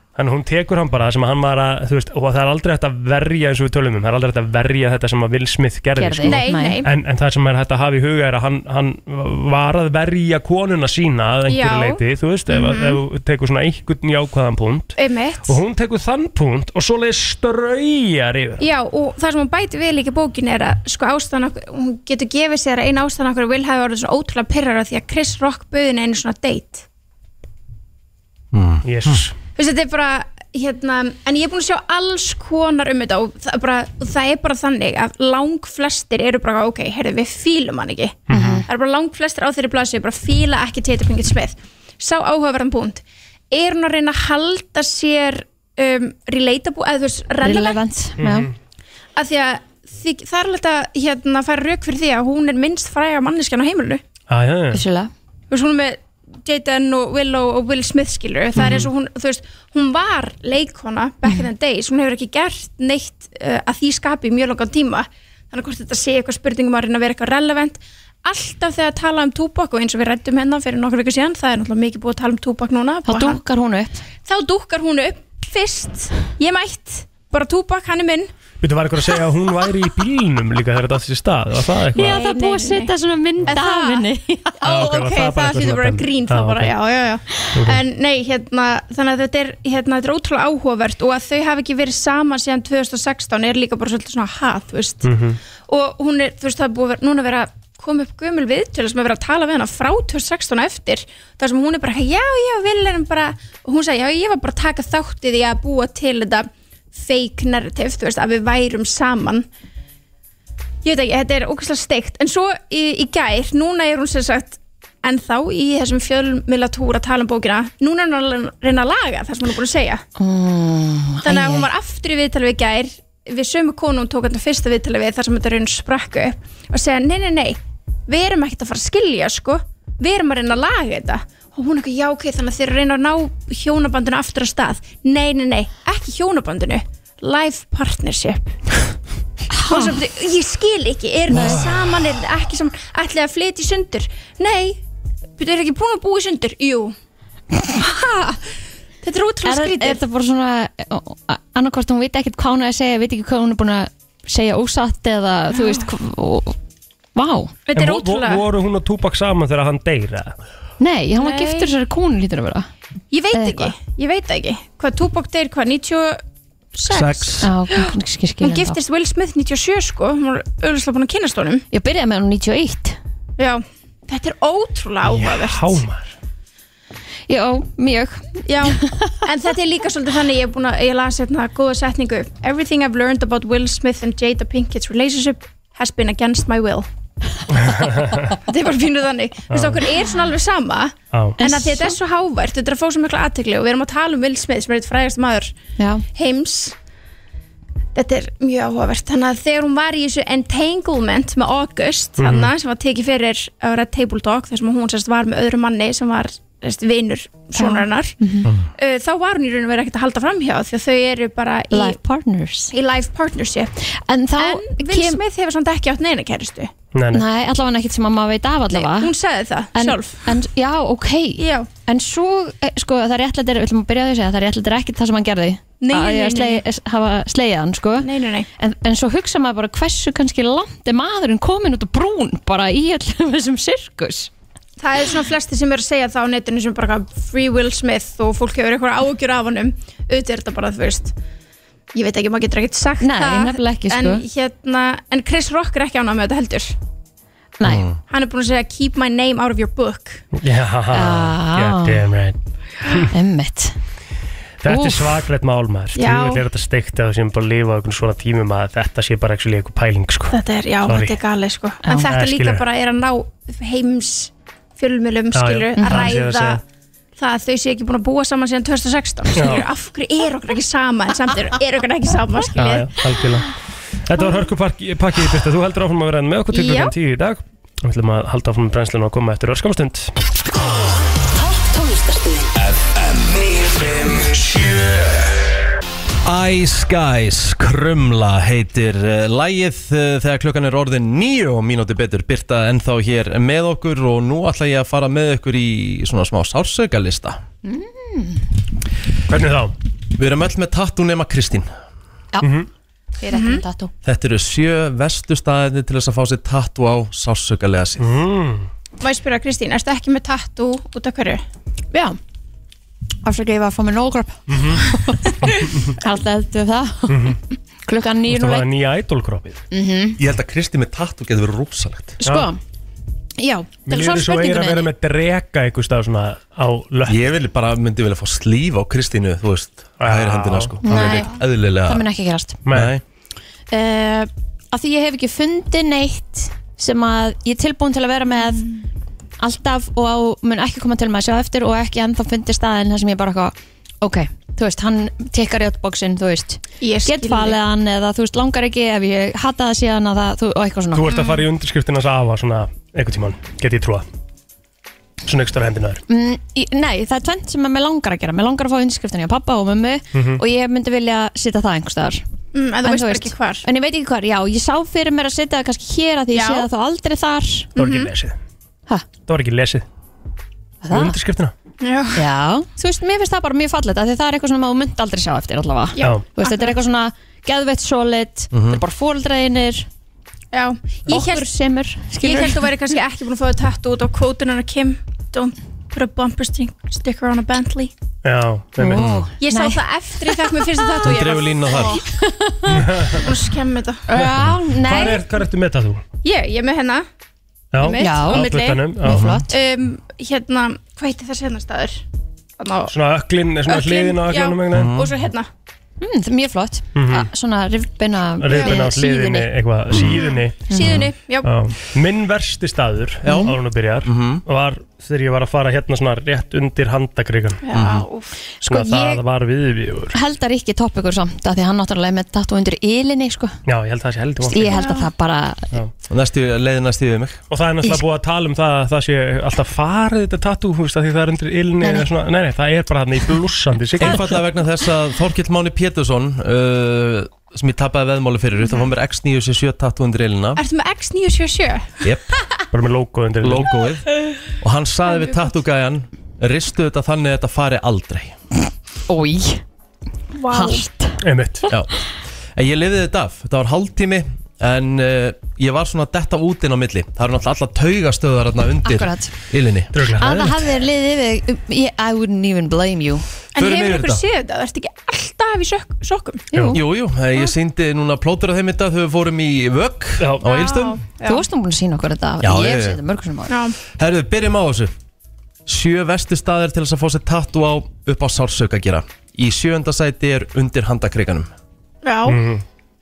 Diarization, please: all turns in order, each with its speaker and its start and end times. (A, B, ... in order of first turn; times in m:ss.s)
0:00.2-0:18.6 A
0:06.0-0:06.8 B
0:06.2-0:06.9 C
0:11.5-0:13.0 C
0:15.0-0:15.6 C
0:18.6-0:26.8 C
0:28.5-0:29.2 D
0:28.8-0:29.3 A
0:29.6-0:47.8 C
0:38.3-0:38.6 A
0:38.3-0:38.6 B
0:47.4-0:48.5 B
0:48.2-0:48.5 A
0:49.2-0:54.0 C
0:54.3-0:54.8 A
0:54.7-0:55.1 B
0:55.5-1:13.4 C
0:58.6-0:58.9 A
1:13.0-1:14.0 B
1:14.2-1:18.3 C
1:18.6-1:22.2 A
1:21.9-1:24.1 C
1:21.9-1:24.6 B
1:24.6-1:35.1 C
1:24.6-1:26.7 A
1:27.5-1:27.8 A
1:35.0-1:35.4 A
1:35.7-1:49.4 C
1:50.8-2:00.0 C
2:00.2-2:01.7 B
2:01.2-2:18.7 C
2:19.5-2:20.0 B
2:19.6-2:24.8 C
2:21.4-2:21.8 D
2:25.4-2:26.9 C
2:27.7-2:28.4 C
2:29.0-2:30.0 C
2:29.4-2:36.6 B
2:35.5-2:35.8 C
2:37.1-2:37.5 B
2:37.7-2:38.4 C
2:37.7-2:40.4 A
2:40.8-2:42.7 B
2:41.2-2:41.7 C
2:43.1-2:46.2 C
2:43.3-2:43.7 B
2:46.7-2:51.6 C
2:46.9-2:47.5 D
2:47.4-2:48.8 B
2:51.7-2:53.0 B
2:53.4-2:55.8 C
2:55.0-2:56.1 A
2:57.3-2:59.2 B
2:58.5-3:06.9 C
3:07.6-3:08.3 A
3:08.3-3:15.5 C
3:09.5-3:09.8 A
3:11.4-3:12.0 B
3:15.8-3:16.0 B
3:16.1-3:16.7 C
3:17.9-3:28.2 C
3:22.2-3:22.5 A
3:27.5-3:28.5 B
3:28.8-3:32.0 C
3:31.7-3:32.7 B
3:32.7-3:33.7 C
3:33.9-3:35.2 B
3:34.4-3:36.7 C
3:36.9-3:37.2 A
3:37.1-3:39.1 B
3:38.7-3:40.3 C
3:39.7-3:54.3 B
3:41.4-3:41.7 C
3:45.8-3:46.6 C
3:48.0-3:48.5 C
3:54.8-4:01.1 C
4:01.9-4:06.8 C
4:03.0-4:04.2 B
4:07.6-4:07.8 B
4:07.6-4:08.0 D
4:08.1-4:10.2 C
4:10.3-4:13.1 A
4:10.9-4:12.0 B
4:13.1-4:13.8 B
4:14.6-4:21.2 A
4:14.7-4:15.1 B
4:15.9-4:16.4 C
4:20.3-4:26.6 C
4:21.8-4:22.1 B
4:22.0-4:22.6 A
4:25.3-4:26.6 A
4:25.8-4:26.1 B
4:27.2-4:32.9 C
4:29.3-4:29.6 A
4:32.5-4:33.5 A
4:34.0-4:40.1 A
4:36.5-4:36.9 C
4:41.5-4:42.5 B
4:42.5-4:45.4 E
4:46.2-4:57.4 D
4:57.6-4:58.4 B
4:59.3-4:59.7 A
5:00.1-5:01.7 D
5:02.4-5:02.7 A
5:03.2-5:03.9 B
5:03.3-5:03.6 C
5:04.0-5:08.2 D
5:08.0-5:08.7 A
5:09.0-5:11.4 C
5:11.9-5:12.2 B
5:13.2-5:18.7 B
5:14.5-5:15.9 A
5:17.1-5:17.4 A
5:18.3-5:19.6 A
5:19.7-5:20.2 B
5:20.2-5:22.2 D
5:22.2-5:22.6 B
5:22.2-5:22.5 A
5:23.4-5:24.9 B
5:23.9-5:27.2 A
5:27.0-5:32.0 D
5:30.0-5:30.8 A
5:30.8-5:32.6 B
5:30.9-5:31.3 C
5:32.6-5:32.9 A
5:32.7-5:33.0 D
5:33.7-5:38.7 B
5:39.4-5:51.1 B
5:46.8-5:47.6 C
5:50.9-5:54.0 A
5:51.1-5:51.4 C
5:55.2-5:56.0 A
5:56.1-6:02.2 B
6:00.1-6:00.4 A
6:02.5-6:03.6 C
6:02.8-6:07.7 B
6:06.3-6:06.7 C
6:07.8-6:08.1 C
6:07.8-6:08.4 A
6:09.3-6:09.8 A
6:10.8-6:11.2 B
6:10.9-6:11.5 A
6:11.8-6:12.2 C
6:12.1-6:19.9 B
6:16.0-6:16.8 C
6:18.5-6:18.8 D
6:20.5-6:21.5 C
6:21.1-6:22.6 B
6:22.2-6:27.9 C
6:28.2-6:29.0 A
6:28.8-6:31.0 B
6:29.0-6:29.3 D
6:29.4-6:32.0 C
6:31.0-6:32.0 D
6:31.7-6:33.1 B
6:32.7-6:33.2 A
6:33.1-6:34.1 C
6:34.1-6:35.2 B
6:34.2-6:36.0 A
6:34.9-6:35.2 C
6:36.2-6:37.0 C
6:37.7-6:39.3 A
6:37.8-6:39.0 C
6:37.9-6:39.5 B
6:39.0-6:39.4 D
6:39.5-6:42.0 C
6:42.6-6:42.9 C
6:42.9-6:44.9 A
6:43.7-6:45.5 C
6:44.7-6:45.1 D
6:46.0-6:49.5 B
6:46.9-6:47.3 A
6:48.4-6:57.6 A
6:48.5-6:48.8 C
6:49.9-6:50.2 D
6:50.0-6:51.5 C
6:50.7-6:51.0 B
6:53.2-6:54.4 D
6:57.6-6:58.4 C
6:57.7-6:58.0 D
6:58.6-7:00.2 A
6:58.7-6:59.2 B
7:00.1-7:03.6 B
7:03.6-7:04.8 A
7:04.5-7:05.7 B
7:04.6-7:05.1 C
7:06.1-7:07.4 D
7:07.5-7:14.4 A
7:11.8-7:12.1 B
7:14.0-7:20.6 D
7:20.6-7:22.0 C
7:22.7-7:23.7 A
7:23.4-7:28.3 D
7:25.0-7:25.5 C
7:29.1-7:29.6 B
7:30.3-7:30.9 C
7:30.5-7:31.2 B
7:31.2-7:31.7 A
7:31.7-7:32.0 D
7:32.6-7:39.9 D
7:38.8-7:39.3 B
7:39.9-7:40.7 A
7:40.2-7:43.2 B
7:43.5-7:46.4 C
7:43.6-7:44.2 D
7:46.5-7:46.8 B
7:46.5-7:46.8 A
7:46.7-7:51.0 D
7:50.2-7:50.5 A
7:50.4-7:51.4 C
7:51.2-7:53.5 B
7:52.4-7:53.0 D
7:53.5-7:53.8 C
7:53.8-7:54.9 D
7:55.6-8:01.5 D
8:02.0-8:02.4 C
8:02.3-8:02.6 A